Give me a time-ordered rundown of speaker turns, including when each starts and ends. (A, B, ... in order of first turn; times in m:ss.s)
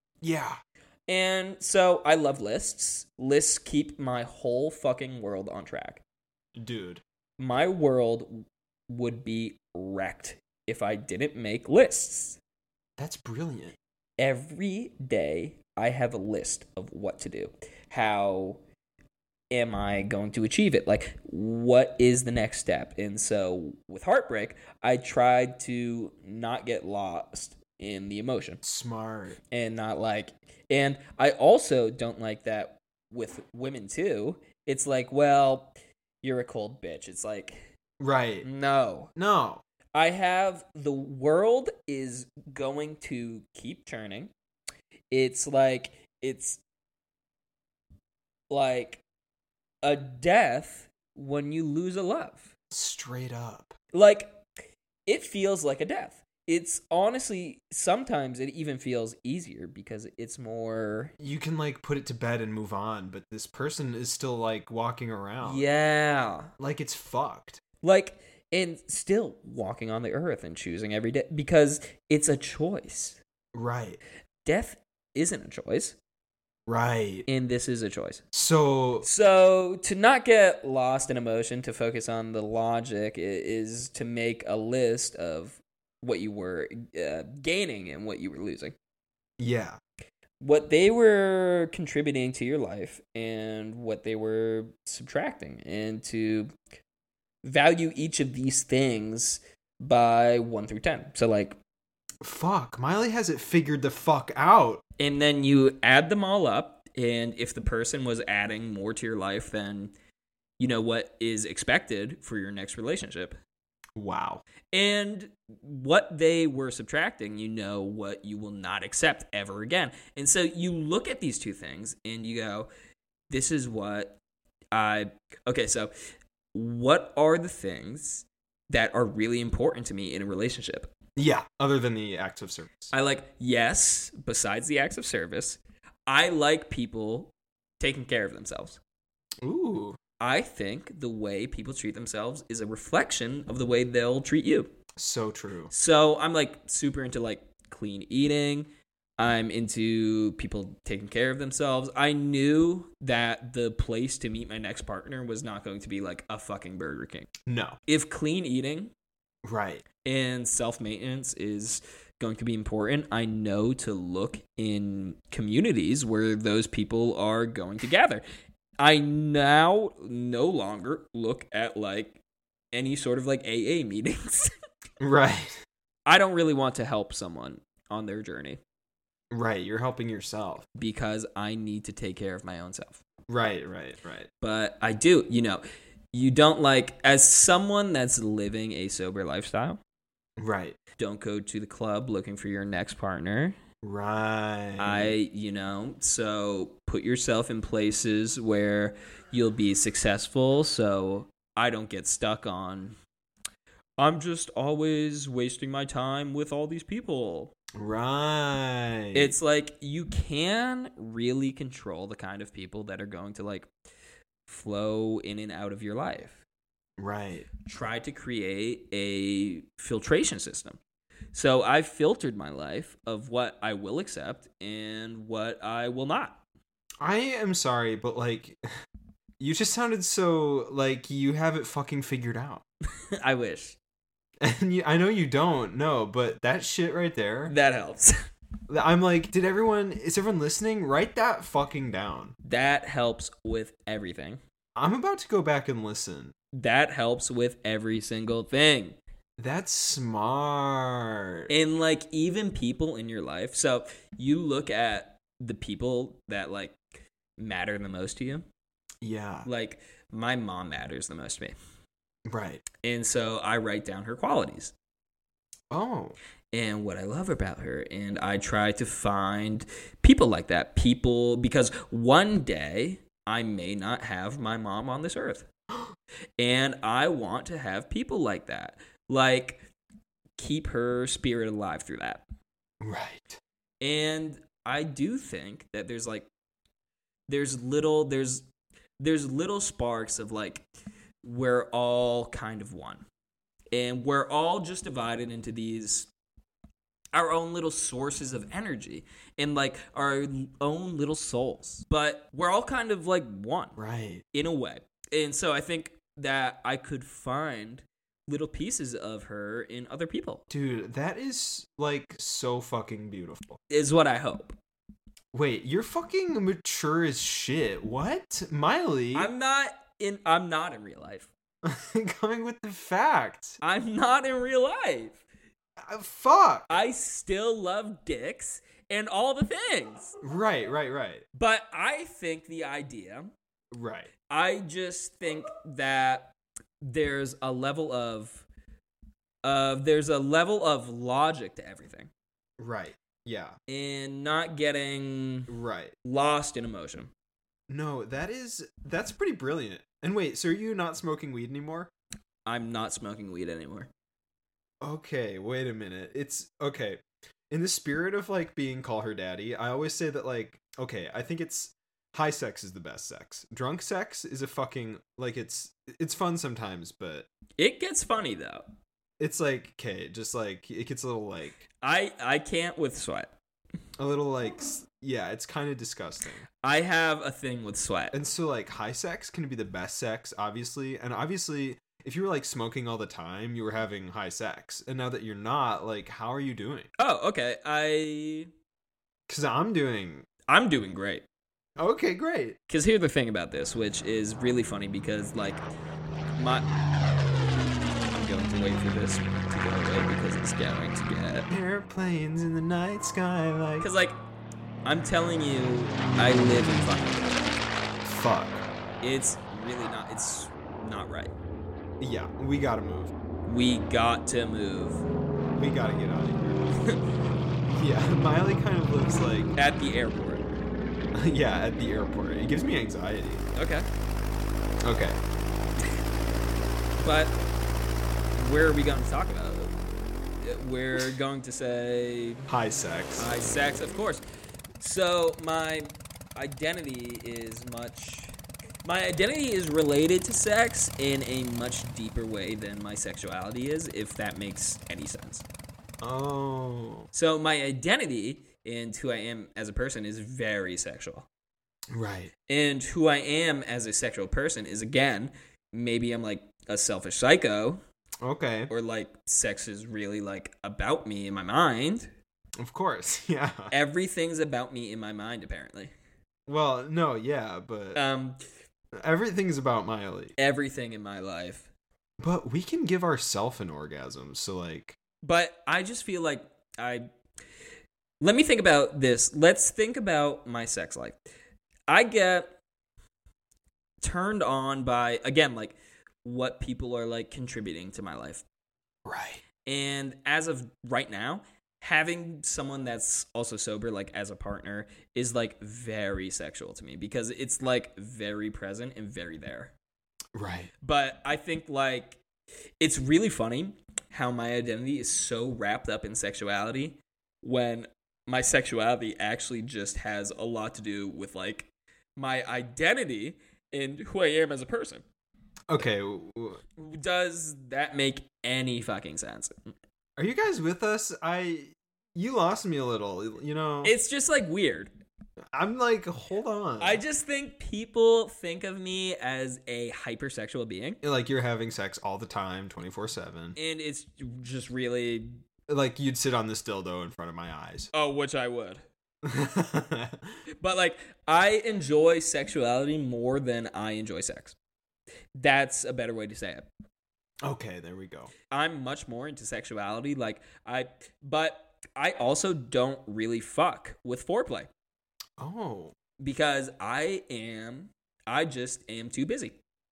0:00.2-0:00.6 A
0:01.1-0:06.0 B
0:06.6-0:07.0 A
0:07.4-0:12.4 B
0:13.0-0:13.8 A
0:14.2-0:18.6 B
0:19.5-0:28.6 B
0:28.6-0:29.4 A
0:29.5-0:37.7 B
0:38.0-0:38.5 A
0:38.4-0:39.1 B
0:39.2-0:39.6 A
0:39.9-0:44.3 B
0:45.1-0:46.6 B
0:48.5-0:49.0 B
0:49.8-0:52.5 B
0:52.7-0:53.8 A
0:53.9-0:54.4 B
0:55.1-1:01.1 B
1:01.2-1:05.6 A
1:05.4-1:06.5 B
1:06.6-1:07.6 A
1:07.8-1:13.2 B
1:13.5-1:14.0 A
1:14.4-1:16.0 B
1:16.7-1:17.2 A
1:17.3-1:18.2 B
1:18.3-1:19.1 A
1:19.0-1:28.8 B
1:29.4-1:29.8 A
1:30.4-1:36.5 B
1:37.4-1:41.6 B
1:42.2-1:44.8 A
1:45.0-1:49.9 B
1:50.6-1:53.4 B
1:54.0-1:54.4 A
1:54.7-2:02.7 B
2:03.3-2:04.2 B
2:04.7-2:05.9 B
2:06.5-2:10.9 B
2:11.2-2:12.9 A
2:12.9-2:18.8 B
2:19.4-2:20.0 A
2:20.2-2:24.7 B
2:25.0-2:25.7 A
2:25.7-2:37.3 B
2:37.4-2:37.8 A
2:37.9-2:38.9 B
2:39.4-2:39.8 A
2:40.0-2:48.2 B
2:48.8-2:52.2 B
2:52.7-2:54.5 B
2:55.0-2:55.6 A
2:56.0-2:58.6 B
2:59.3-3:00.6 A
3:00.8-3:03.0 B
3:03.3-3:04.3 A
3:04.4-3:09.8 B
3:10.4-3:10.8 A
3:11.0-3:13.6 B
3:13.8-3:15.1 A
3:14.8-3:23.0 B
3:24.0-3:27.5 B
3:27.8-3:29.3 A
3:29.1-3:33.7 B
3:34.5-3:36.4 B
3:37.0-3:37.5 A
3:37.6-3:40.8 B
3:41.3-3:46.4 B
3:47.0-3:48.6 A
3:49.4-3:52.6 A
3:53.2-3:53.8 B
3:54.4-3:57.5 A
3:57.5-3:58.1 B
3:58.7-4:02.3 A
4:02.4-4:04.4 B
4:04.8-4:06.3 A
4:06.5-4:09.0 B
4:09.4-4:11.5 A
4:11.5-4:16.8 B
4:17.4-4:18.4 B
4:19.0-4:19.5 A
4:19.4-4:21.5 B
4:22.3-4:22.6 A
4:22.8-4:24.7 B
4:25.7-4:26.2 A
4:26.5-4:35.5 B
4:36.4-4:39.6 B
4:40.4-4:42.2 B
4:42.8-4:43.4 A
4:43.8-4:46.3 B
4:47.3-4:48.4 B
4:49.0-4:50.6 B
4:51.2-4:53.0 B
4:53.7-4:56.1 B
4:57.1-5:03.8 B
5:03.8-5:04.2 A
5:04.3-5:10.4 B
5:10.5-5:13.6 A
5:13.7-5:14.6 B
5:15.3-5:19.3 A
5:19.1-5:21.3 B
5:21.6-5:23.6 A
5:23.6-5:25.2 B
5:25.8-5:26.8 A
5:26.7-5:30.2 B
5:30.2-5:31.2 A
5:31.3-5:33.3 B
5:33.7-5:34.1 A
5:34.3-5:38.4 B
5:39.4-5:42.1 B
5:42.6-5:43.6 A
5:43.7-5:45.5 B
5:45.5-5:45.9 A
5:46.0-5:47.1 B
5:47.7-5:51.9 A
5:52.4-5:53.9 B
5:54.8-6:07.3 A
6:07.6-6:08.6 B
6:09.2-6:11.6 A
6:11.8-6:13.3 B
6:14.0-6:16.4 A
6:16.6-6:18.1 B
6:18.1-6:26.9 A
6:27.0-6:28.5 B
6:29.3-6:30.2 A
6:30.5-6:31.2 B
6:31.8-6:32.6 A
6:32.7-6:35.6 B
6:36.4-6:36.8 B
6:38.0-6:41.5 B
6:41.5-6:43.9 A
6:43.8-6:44.2 B
6:44.8-6:47.5 B
6:48.0-6:48.6 A
6:49.0-6:51.3 B
6:52.0-6:53.1 A
6:53.4-6:55.0 B
6:55.6-6:56.8 A
6:56.8-6:57.0 B
6:57.7-6:59.5 A
6:59.6-7:00.5 B
7:01.1-7:03.4 A
7:03.5-7:03.8 B
7:04.8-7:05.2 A
7:07.0-7:07.4 B
7:08.3-7:09.8 B
7:10.4-7:12.5 B
7:12.5-7:13.3 A
7:13.2-7:14.2 B
7:14.8-7:25.4 B
7:26.0-7:27.1 A
7:27.1-7:31.3 B
7:31.9-7:32.3 A
7:32.5-7:37.8 B
7:38.2-7:38.7 A
7:38.7-7:42.1 B
7:42.6-7:43.7 A
7:43.7-7:45.9 B
7:46.5-7:48.0 A
7:48.0-7:48.4 B
7:49.0-7:50.4 A
7:50.4-7:51.7 B
7:52.2-7:55.0 A
7:55.2-7:57.1 B
7:58.2-8:01.2 B
8:01.9-8:02.5 B
8:04.0-8:08.4 B
8:09.0-8:09.4 A
8:09.6-8:19.7 B
8:20.3-8:20.7 A
8:20.8-8:22.2 B
8:22.8-8:35.0 B
8:35.7-8:36.6 A
8:36.8-8:39.7 B
8:40.2-8:43.9 A
8:43.8-8:44.9 B
8:45.5-8:47.0 A
8:46.8-8:51.0 B
8:51.0-8:53.6 A
8:53.6-8:55.4 B
8:55.7-8:57.9 A
8:57.9-8:58.8 B
8:59.2-9:00.3 A
9:00.6-9:04.6 B
9:05.4-9:06.7 B
9:07.4-9:08.3 A
9:08.5-9:14.7 B
9:15.4-9:15.9 A
9:16.2-9:19.6 B